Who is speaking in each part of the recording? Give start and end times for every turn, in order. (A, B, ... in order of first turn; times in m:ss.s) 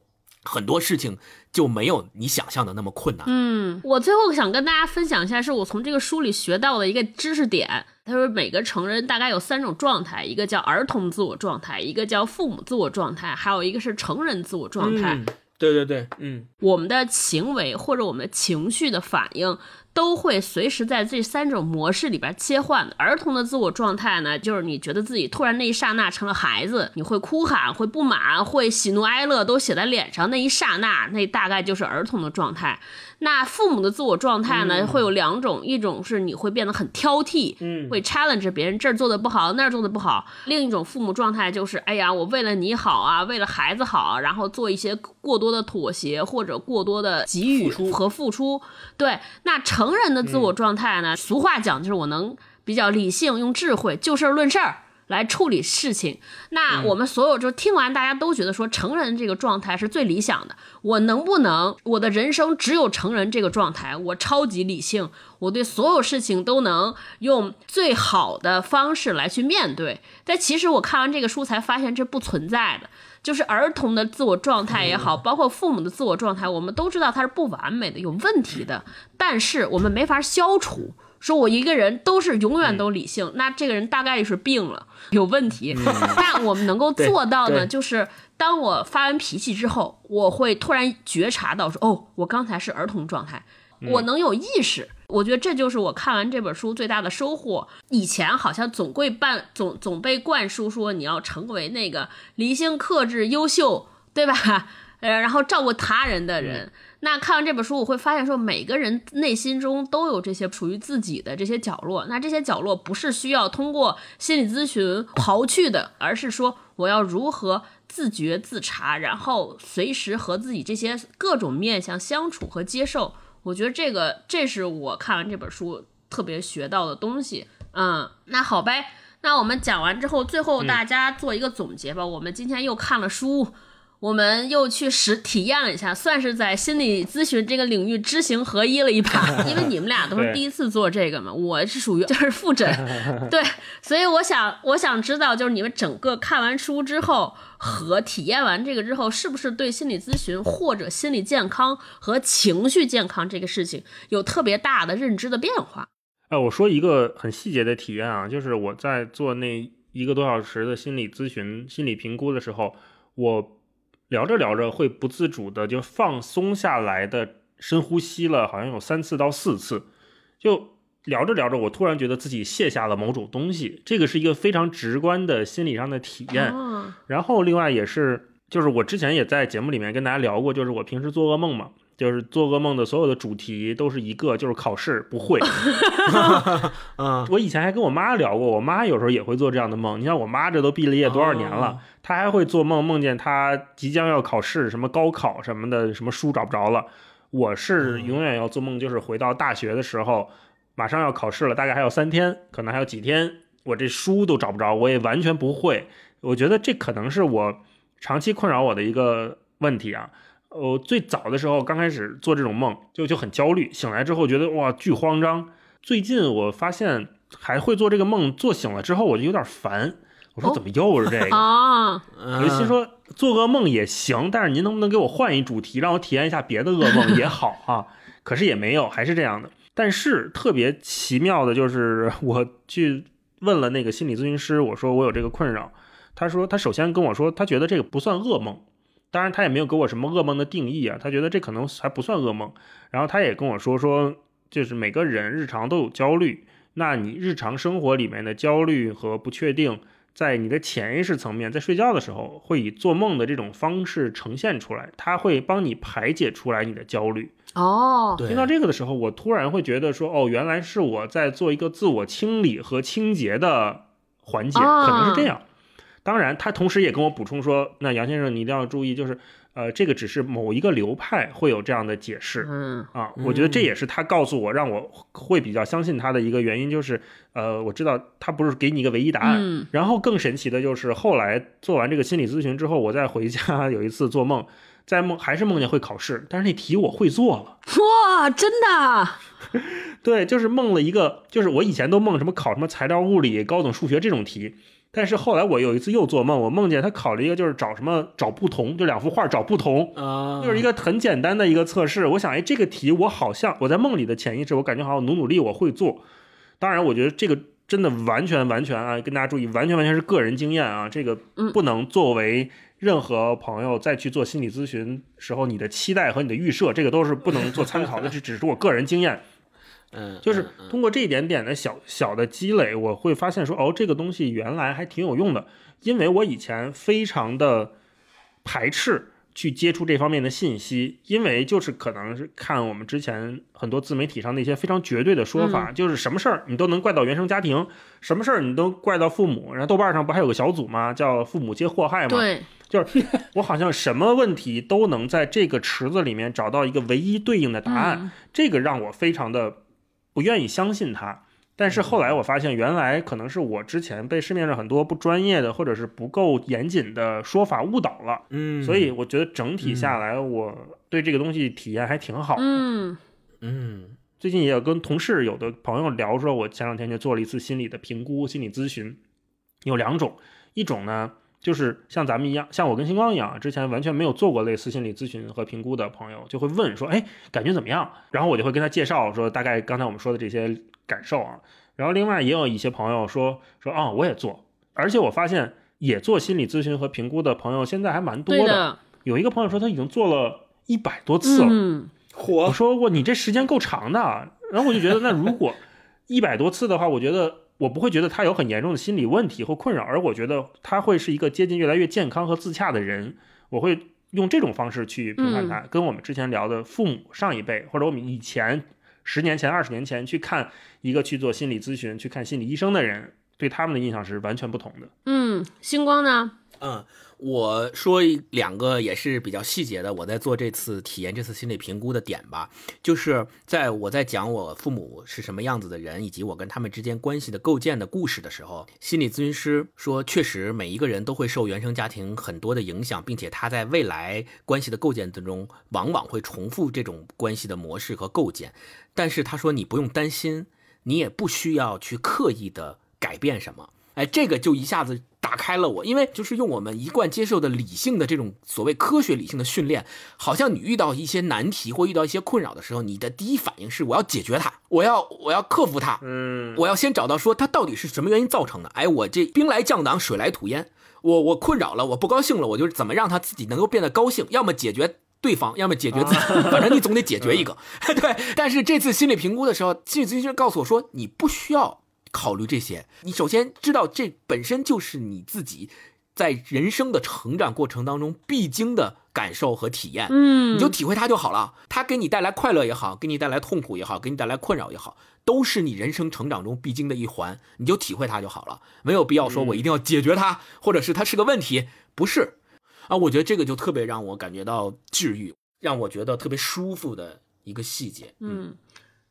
0:00.4-0:03.3 A
0:03.2-0:15.2 B
0:14.8-0:16.5 A
0:16.6-2:35.9 B
0:37.6-0:38.0 C
1:25.7-1:26.0 C
1:25.8-1:26.2 A
1:27.0-1:27.7 A
1:33.8-1:34.1 C
2:20.2-2:20.4 C
2:36.3-2:43.5 C
2:44.1-2:49.8 C
2:50.4-2:56.6 C
2:56.3-2:57.0 B
2:57.1-3:05.6 C
3:05.6-3:06.3 B
3:06.1-3:07.3 A
3:07.3-3:41.4 C
3:11.0-3:11.8 A
3:17.8-3:18.2 A
3:41.3-3:42.0 B
3:42.2-3:42.8 A
3:42.4-4:17.3 C
4:17.5-4:18.2 B
4:18.2-4:18.5 A
4:18.3-4:25.4 C
4:24.5-4:25.3 B
4:26.0-4:47.6 C
4:32.4-4:32.9 B
4:33.2-4:33.7 A
4:39.2-4:39.7 B
4:47.7-4:49.2 B
4:49.5-5:06.0 C
4:59.9-5:00.7 A
5:06.6-5:19.2 C
5:19.9-5:20.7 A
5:20.2-5:27.7 C
5:28.4-5:49.6 C
5:35.4-5:35.7 B
5:42.1-5:42.5 B
5:47.7-5:48.1 B
5:50.1-6:02.6 C
5:51.7-5:52.0 A
5:58.3-5:58.9 A
5:59.6-6:00.0 A
6:02.4-6:03.0 B
6:03.4-6:04.0 A
6:04.2-6:09.0 C
6:09.6-6:31.6 C
6:28.3-6:28.8 B
6:31.2-6:31.9 B
6:32.1-6:32.6 A
6:32.4-6:54.9 C
6:45.2-6:45.6 B
6:55.0-6:56.3 B
6:56.6-7:36.0 A
7:36.0-7:36.6 C
7:36.5-8:12.4 A
7:45.9-7:47.4 C
8:00.1-8:00.7 B
8:09.2-8:09.6 C
8:12.9-8:18.4 A
8:18.2-8:18.6 B